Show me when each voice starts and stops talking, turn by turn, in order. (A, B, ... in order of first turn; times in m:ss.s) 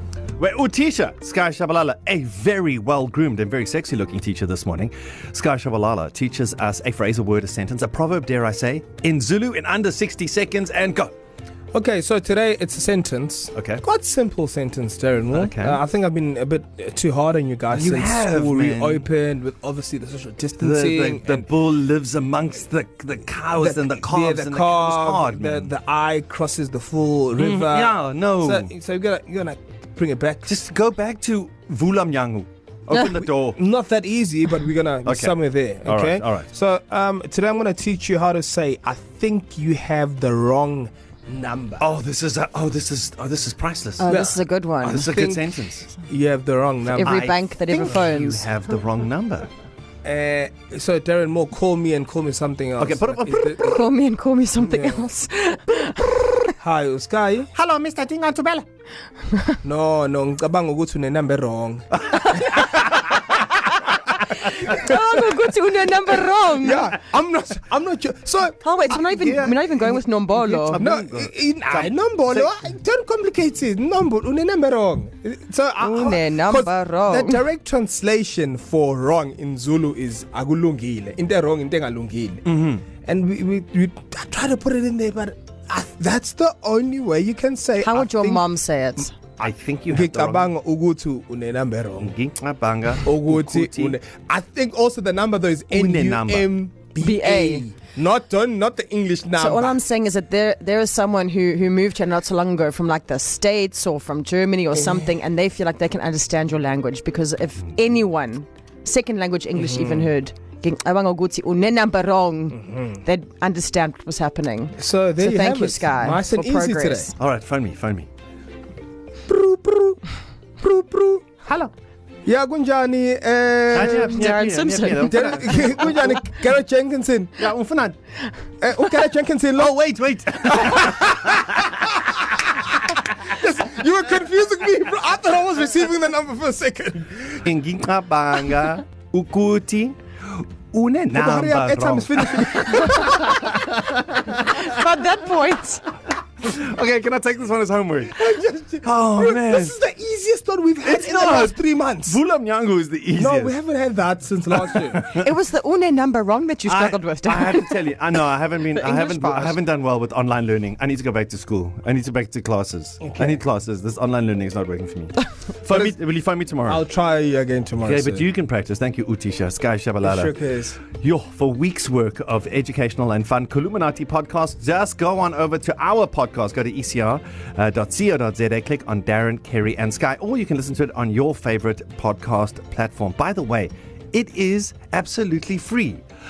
0:00.4-0:11.1 A
0:11.7-0:21.4 B
0:13.5-0:13.8 A
0:15.3-0:15.8 A
0:17.7-0:19.1 A
0:20.6-0:25.7 A
0:23.6-0:30.5 B
0:27.4-0:28.7 A
0:30.5-0:33.6 A
0:33.0-0:41.9 B
0:35.0-0:36.5 A
0:41.8-0:44.3 A
0:44.0-0:45.0 C
0:44.1-0:47.3 B
0:44.8-0:45.9 A
0:46.9-0:48.5 C
0:47.0-0:49.5 A
0:50.0-0:53.8 B
0:52.8-0:53.7 A
0:53.6-0:56.5 C
0:54.6-0:55.0 B
0:56.6-0:57.5 B
0:57.5-0:58.6 A
0:59.6-1:03.2 B
1:02.1-1:02.8 A
1:03.7-1:06.9 C
1:04.4-1:05.0 B
1:06.5-1:08.6 B
1:08.6-1:10.8 C
1:08.9-1:12.5 A
1:10.8-1:22.4 B
1:15.8-1:17.4 C
1:22.4-1:22.8 A
1:23.0-1:28.5 B
1:27.8-1:29.2 C
1:29.4-1:30.5 A
1:29.9-1:32.1 B
1:32.0-1:34.0 A
1:33.0-1:39.8 B
1:35.7-1:36.5 A
1:37.0-1:37.7 C
1:39.4-1:57.1 C
1:44.7-1:45.2 B
1:49.6-1:50.1 B
1:52.6-1:53.0 B
1:54.8-1:57.1 B
1:57.2-1:58.1 A
1:59.3-2:00.0 B
2:00.6-2:01.3 B
2:02.2-2:04.4 B
2:03.7-2:06.1 A
2:03.9-2:05.8 C
2:05.0-2:07.5 B
2:07.4-2:08.0 A
2:08.6-2:09.8 B
2:09.6-2:11.6 A
2:10.4-2:12.5 B
2:13.2-2:17.4 B
2:17.4-2:24.6 A
2:21.1-2:23.5 B
2:24.4-2:25.8 C
2:26.4-2:28.3 A
2:28.2-2:32.2 B
2:28.8-2:29.8 A
2:30.8-2:33.6 A
2:33.2-2:35.1 B
2:34.5-2:35.3 A
2:35.1-2:37.8 C
2:36.7-2:46.8 A
2:38.7-2:39.6 C
2:43.0-2:43.4 B
2:46.7-2:48.3 B
2:47.8-2:50.3 A
2:50.0-2:50.8 B
2:50.9-3:06.0 A